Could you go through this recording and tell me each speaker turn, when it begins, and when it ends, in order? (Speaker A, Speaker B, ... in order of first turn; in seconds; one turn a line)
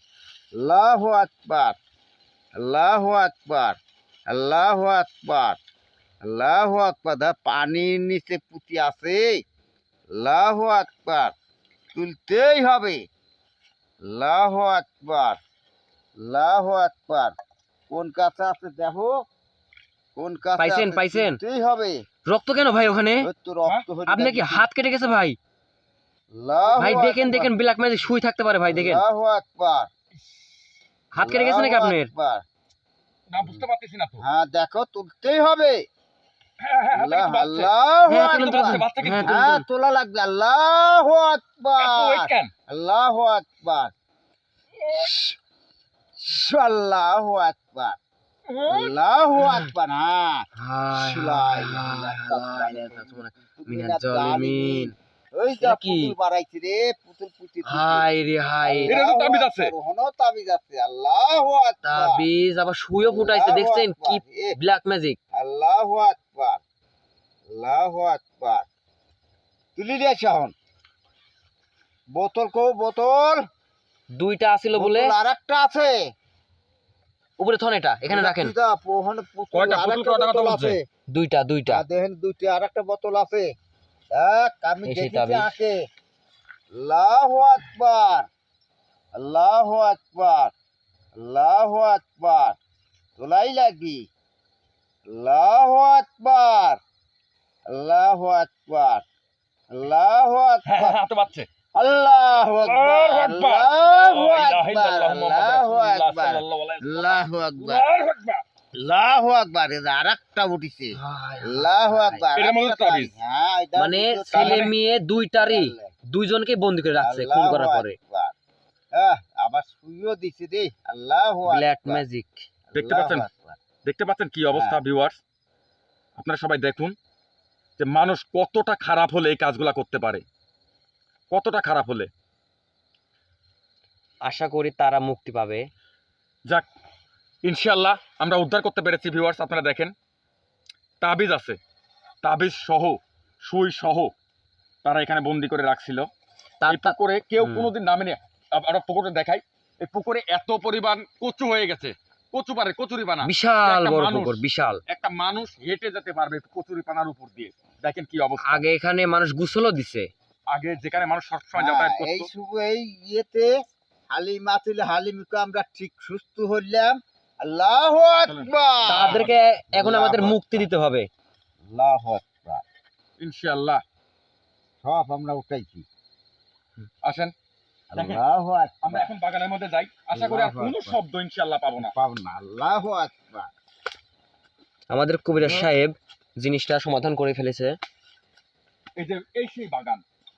Speaker A: 0.6-1.8
Speaker A: 2.5-5.6
Speaker A: 6.2-9.4
Speaker A: 10.1-11.3
Speaker A: 11.9-13.1
Speaker A: 14.0-15.4
Speaker A: 16.2-17.3
Speaker A: 17.9-19.2
Speaker A: 20.1-22.0
Speaker B: 20.6-21.4
Speaker B: 22.3-23.3
Speaker A: 23.2-24.7
Speaker B: 24.1-25.4
Speaker A: 26.3-27.5
Speaker B: 26.8-29.0
Speaker A: 28.7-29.9
Speaker B: 31.1-32.1
Speaker A: 31.2-32.4
Speaker C: 33.3-34.2
Speaker A: 34.2-35.8
Speaker C: 36.6-39.6
Speaker A: 36.9-43.9
Speaker B: 38.1-39.4
Speaker C: 41.8-42.5
Speaker A: 44.9-45.3
Speaker A: 46.2-48.0
Speaker C: 48.5-48.9
Speaker A: 48.7-58.1
Speaker B: 50.5-54.9
Speaker B: 55.6-56.1
Speaker B: 57.6-59.0
Speaker A: 58.6-62.2
Speaker C: 58.9-59.7
Speaker B: 61.8-65.2
Speaker A: 63.0-64.6
Speaker A: 65.3-66.6
Speaker A: 67.5-68.7
Speaker A: 69.8-70.5
Speaker A: 72.1-73.4
Speaker B: 74.2-75.1
Speaker A: 74.7-76.0
Speaker B: 77.4-78.5
Speaker A: 78.1-80.8
Speaker C: 79.5-80.8
Speaker B: 81.1-81.8
Speaker A: 81.7-83.5
Speaker A: 84.1-85.8
Speaker B: 84.8-85.5
Speaker A: 86.7-88.3
Speaker A: 89.2-90.5
Speaker A: 91.2-92.6
Speaker A: 93.2-94.1
Speaker A: 95.1-96.8
Speaker A: 97.7-99.0
Speaker A: 99.7-101.0
Speaker C: 100.7-101.5
Speaker A: 101.7-107.9
Speaker C: 102.7-108.4
Speaker A: 108.8-114.7
Speaker B: 110.9-112.2
Speaker C: 112.3-113.1
Speaker B: 113.8-118.0
Speaker C: 114.3-114.7
Speaker A: 115.4-115.9
Speaker A: 117.0-118.3
Speaker A: 118.9-122.0
Speaker B: 121.5-122.5
Speaker A: 122.7-123.6
Speaker C: 122.7-123.3
Speaker C: 123.8-125.2
Speaker A: 124.5-124.8
Speaker C: 126.2-126.9
Speaker C: 127.8-130.2
Speaker C: 131.3-132.1
Speaker B: 134.2-135.6
Speaker C: 137.4-139.9
Speaker C: 141.0-141.6
Speaker C: 142.2-144.1
Speaker C: 144.8-146.1
Speaker B: 146.6-147.7
Speaker C: 146.7-158.6
Speaker B: 153.2-154.8
Speaker B: 158.4-160.1
Speaker C: 160.5-162.3
Speaker A: 161.5-163.5
Speaker A: 164.1-170.7
Speaker C: 168.3-169.3
Speaker B: 168.8-171.1
Speaker A: 171.7-172.6
Speaker C: 173.2-173.8
Speaker A: 174.8-175.8
Speaker C: 177.0-177.3
Speaker A: 177.9-179.1
Speaker C: 177.9-178.2
Speaker C: 178.8-181.9
Speaker A: 180.1-181.0
Speaker A: 181.9-183.5
Speaker B: 184.9-187.8
Speaker C: 189.0-190.0